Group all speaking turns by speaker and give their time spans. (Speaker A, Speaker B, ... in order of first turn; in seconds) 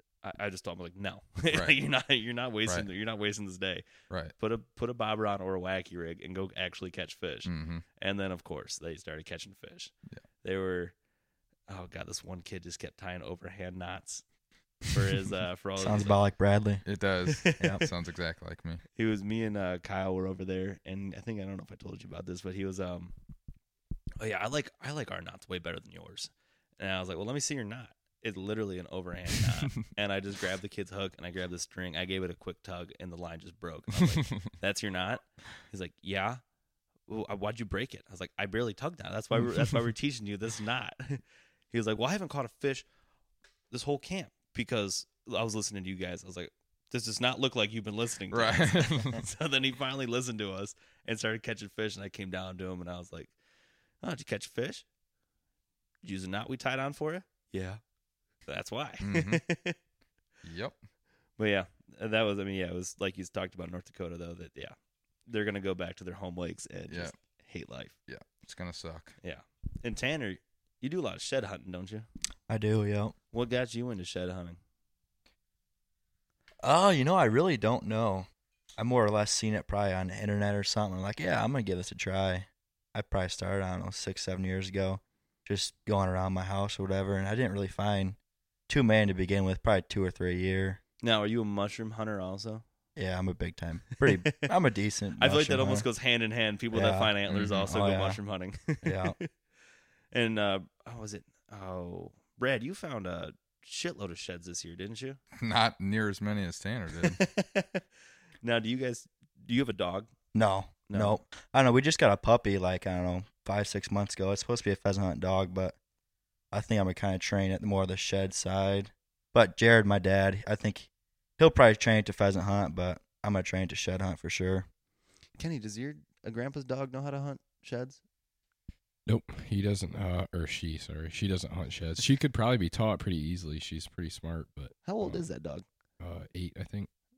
Speaker A: 0.2-3.9, 4.4-9.9, 10.4-10.9, 11.7-14.2, 14.8-16.2, 17.3-17.9, 18.9-23.1, 24.2-36.4, 37.1-42.9, 43.7-53.3, 54.0-54.9, 56.0-57.8, 58.5-59.8, 61.4-64.8, 65.3-68.0, 69.2-72.1, 73.3-74.6, 91.0-92.6, 94.0-94.5, 95.2-99.3, 100.1-105.2, 107.0-107.8, 108.4-110.1, 110.9-111.2, 125.4-128.0, 134.9-135.7
Speaker B: 1.5-1.8, 7.5-7.8, 16.9-18.8, 48.3-49.2, 59.0-59.4, 60.4-60.8, 66.9-67.2, 68.1-69.2, 97.3-97.7, 105.4-107.2
Speaker C: 15.8-16.8, 72.5-73.1, 76.6-88.2, 88.7-90.8, 93.0-95.9, 96.7-97.1, 97.7-98.2, 98.8-99.2, 110.3-115.8, 116.5-124.7
Speaker D: 129.1-135.3, 136.0-136.9